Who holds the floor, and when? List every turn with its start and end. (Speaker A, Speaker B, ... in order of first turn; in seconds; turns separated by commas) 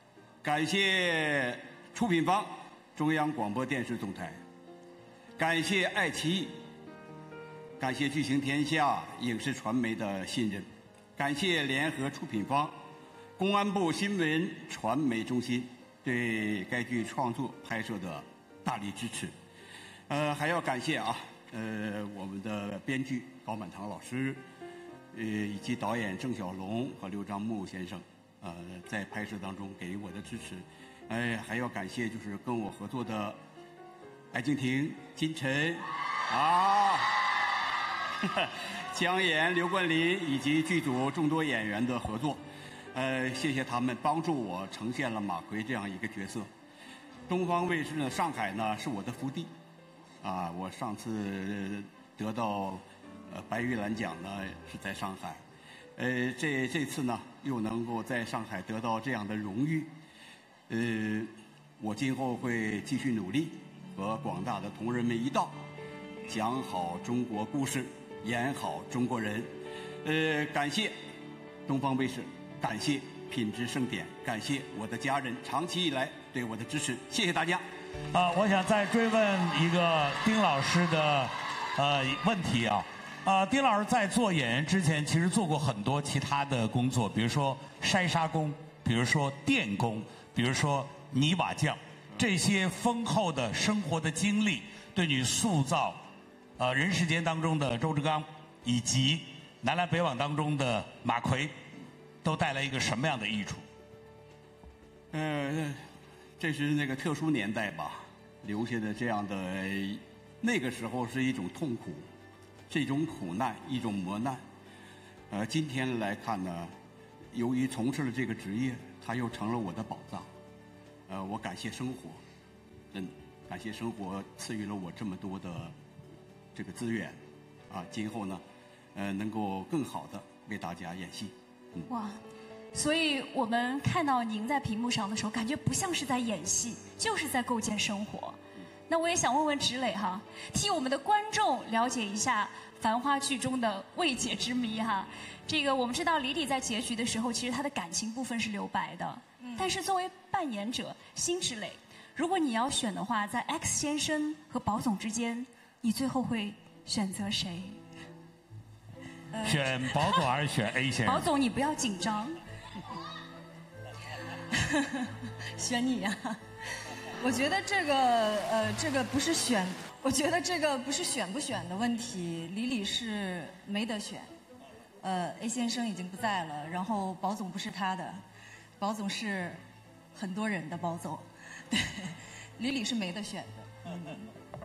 Speaker A: 0.4-4.4, Speaker A: 5.4-6.5, Speaker A: 7.8-12.7, Speaker A: 13.4-19.3, Speaker A: 20.1-24.4, Speaker A: 25.1-33.4, Speaker A: 34.3-37.4, Speaker A: 38.2-42.4, Speaker A: 42.9-46.5, Speaker A: 47.3-49.5, Speaker A: 50.2-55.4, Speaker A: 56.0-59.9, Speaker A: 60.7-65.5, Speaker A: 66.3-69.5, Speaker A: 70.0-70.9, Speaker A: 71.7-77.6, Speaker B: 78.1-96.0, Speaker B: 96.6-101.5, Speaker B: 102.2-103.6, Speaker A: 105.1-105.8, Speaker A: 106.4-112.0, Speaker A: 112.7-114.4, Speaker A: 115.3-116.7, Speaker A: 117.3-120.3, Speaker A: 121.1-122.2, Speaker A: 122.9-125.7, Speaker A: 126.5-128.4, Speaker A: 128.9-131.9, Speaker C: 131.9-132.2, Speaker C: 132.7-138.4, Speaker C: 138.9-157.8, Speaker D: 149.4-149.7, Speaker D: 159.3-159.7, Speaker B: 159.4-161.3, Speaker C: 161.0-162.4, Speaker D: 164.5-166.4, Speaker D: 167.2-174.3, Speaker D: 175.0-178.2, Speaker D: 178.8-179.6, Speaker D: 180.1-184.1